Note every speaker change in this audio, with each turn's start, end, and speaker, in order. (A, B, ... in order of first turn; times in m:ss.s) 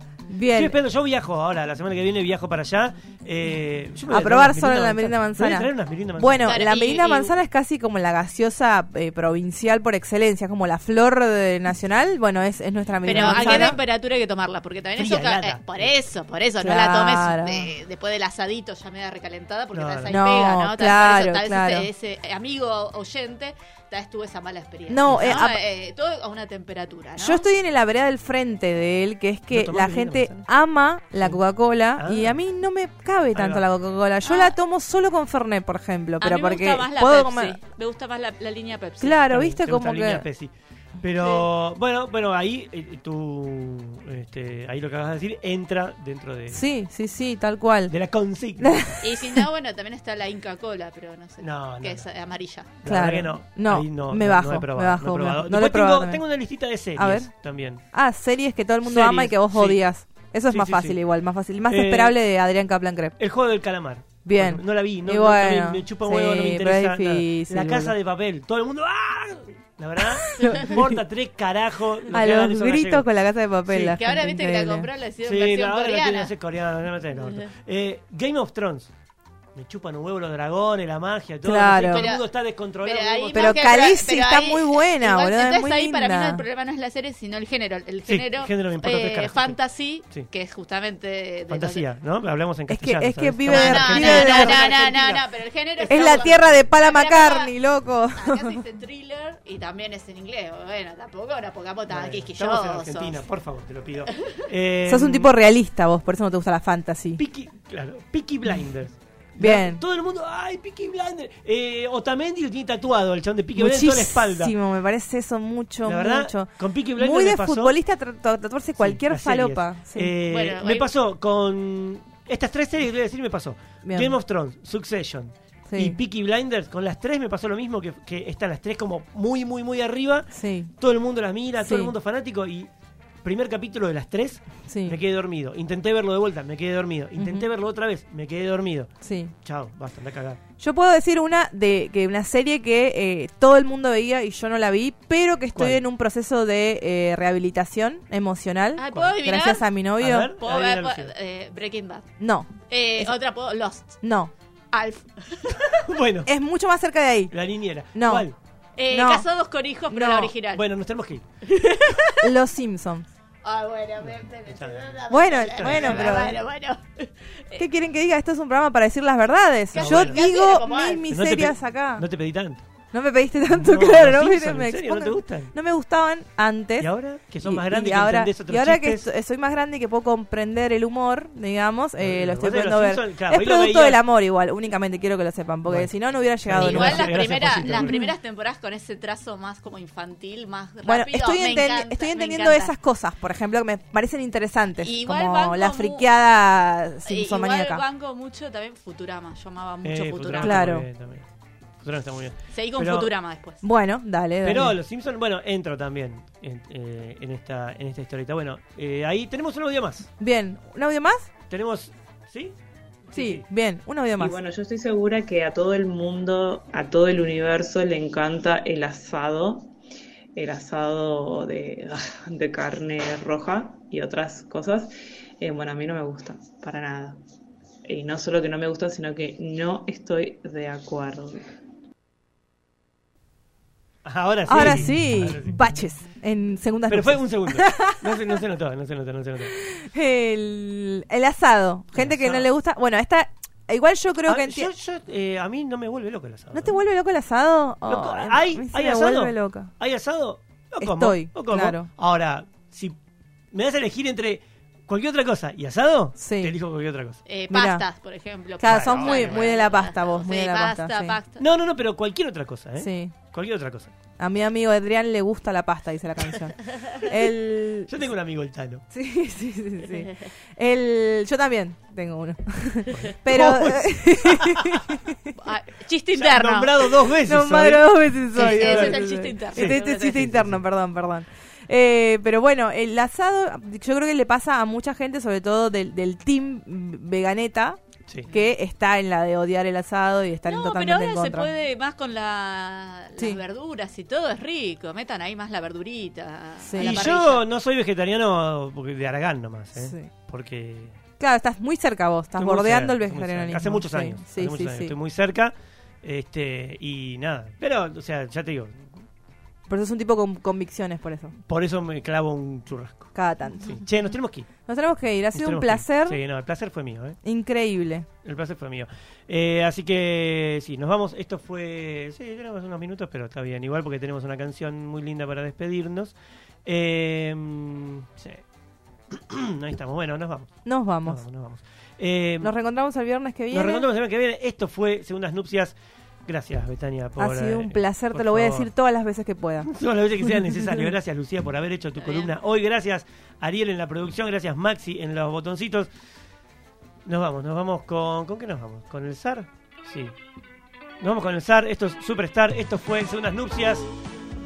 0:00.3-0:00.8 A
0:00.5-0:06.6 B
0:04.1-0:13.8 A
0:06.4-0:07.3 C
0:13.0-0:27.4 C
0:13.1-0:13.8 B
0:15.0-0:15.9 B
0:16.6-0:17.7 A
0:19.7-0:20.2 B
0:20.1-0:21.9 A
0:24.9-0:25.6 A
0:25.1-0:25.4 B
0:27.2-0:37.6 A
0:29.5-0:30.5 B
0:32.0-0:32.4 B
0:33.4-0:33.6 B
0:34.2-0:34.6 C
0:36.2-0:39.2 C
0:39.0-0:40.3 A
0:39.3-0:46.6 B
0:41.2-0:41.5 C
0:46.5-0:47.9 A
0:47.9-0:49.0 B
0:48.6-0:49.5 A
0:49.0-0:52.8 C
0:51.4-0:52.1 B
0:52.8-0:57.8 B
0:52.8-0:56.2 A
0:57.0-0:57.3 A
0:57.9-1:03.2 A
0:58.8-0:59.8 B
1:00.5-1:01.0 B
1:01.7-1:02.2 B
1:03.2-1:13.1 B
1:04.2-1:08.0 A
1:10.4-1:10.9 A
1:10.4-1:10.7 C
1:12.1-1:14.9 A
1:13.7-1:14.0 B
1:13.8-1:16.3 C
1:15.2-1:18.9 B
1:17.2-1:17.5 C
1:19.6-1:23.8 B
1:21.4-1:22.1 A
1:21.9-1:31.9 C
1:23.3-1:26.4 A
1:28.1-1:30.3 B
1:31.5-1:36.6 B
1:32.7-1:34.7 A
1:33.5-1:37.5 C
1:35.9-1:38.6 A
1:38.2-1:43.2 C
1:41.9-1:45.3 B
1:44.1-1:44.4 C
1:44.9-1:47.2 A
1:47.2-1:54.5 B
1:49.4-1:49.8 A
1:53.6-2:00.2 A
1:55.8-1:57.8 B
1:58.8-2:12.7 B
2:00.3-2:00.9 C
2:03.8-2:04.2 A
2:05.7-2:06.0 A
2:10.3-2:10.7 A
2:11.6-2:11.9 A
2:13.2-2:18.9 B
2:14.7-2:15.0 A
2:17.2-2:17.5 A
2:19.0-2:19.3 A
2:19.4-2:20.4 B
2:20.6-2:30.3 A
2:25.6-2:25.8 B
2:28.8-2:29.7 C
2:30.0-2:31.1 B
2:30.4-2:32.1 C
2:32.2-2:33.1 A
2:32.7-2:34.0 C
2:34.0-2:34.3 A
2:34.7-2:35.9 C
2:35.8-2:36.3 B
2:36.3-2:37.4 A
2:37.3-2:38.4 B
2:37.9-2:38.3 A
2:38.8-2:40.6 C
2:38.9-2:39.3 A
2:39.9-2:40.3 A
2:40.5-2:41.2 B
2:41.4-2:42.3 C
2:42.2-2:43.1 A
2:43.4-2:47.6 C
2:44.0-2:46.3 B
2:45.1-2:46.4 A
2:47.6-2:52.1 A
2:49.7-2:50.2 B
2:49.7-2:51.1 C
2:51.1-2:52.6 B
2:52.9-2:56.9 A
2:53.5-2:55.5 B
2:56.8-2:59.1 B
2:57.4-3:08.1 A
3:02.0-3:04.0 B
3:05.7-3:08.0 B
3:06.6-3:12.7 C
3:10.8-3:17.8 A
3:14.8-3:16.1 C
3:17.0-3:20.7 C
3:19.8-3:21.2 B
3:20.4-3:20.9 A
3:21.8-3:23.1 B
3:22.5-3:23.6 C
3:23.6-3:24.8 A
3:24.4-3:30.1 B
3:30.2-3:31.3 A
3:31.5-3:32.6 B
3:33.1-3:33.4 B
3:33.1-3:34.4 A
3:34.2-3:39.7 D
3:40.4-3:47.2 D
3:47.9-3:51.4 D
3:54.0-3:55.7 B
3:54.5-3:58.4 A
3:56.9-3:59.6 B
3:59.7-4:04.7 A
4:01.9-4:02.5 B
4:04.3-4:06.8 B
4:06.5-4:09.7 A
4:07.9-4:13.0 B
4:10.8-4:11.9 A
4:13.5-4:17.2 B
4:16.2-4:16.6 A
4:17.3-4:21.4 C
4:17.5-4:17.8 A
4:18.6-4:21.2 A
4:18.6-4:19.5 B
4:21.4-4:23.9 B
4:22.8-4:23.1 A
4:24.2-4:28.0 A
4:27.9-4:28.8 B
4:28.9-4:35.2 A
4:29.9-4:30.2 C
4:32.9-4:34.6 B
4:35.4-4:36.9 C
4:36.1-4:40.6 B
4:37.3-4:47.8 A
4:38.4-4:40.3 C
4:48.3-4:51.5 A
4:50.5-4:57.4 C
4:56.6-4:57.1 A
4:56.8-5:01.0 B
4:59.8-5:00.1 A
5:01.2-5:05.0 A
5:02.4-5:08.9 B
5:09.7-5:11.4 A
5:11.5-5:14.5 B
5:13.2-5:13.8 A
5:14.7-5:16.2 A
5:15.3-5:17.2 B
5:17.2-5:18.1 A
5:18.2-5:28.4 B
5:29.1-5:32.5 B
5:30.7-5:31.2 A
5:32.4-5:33.9 A
5:33.5-5:35.8 B
5:36.3-5:38.7 B
5:37.2-5:39.7 A
5:39.7-5:45.9 B
5:42.0-5:42.3 C
5:47.1-5:50.1 B
5:51.0-5:53.9 B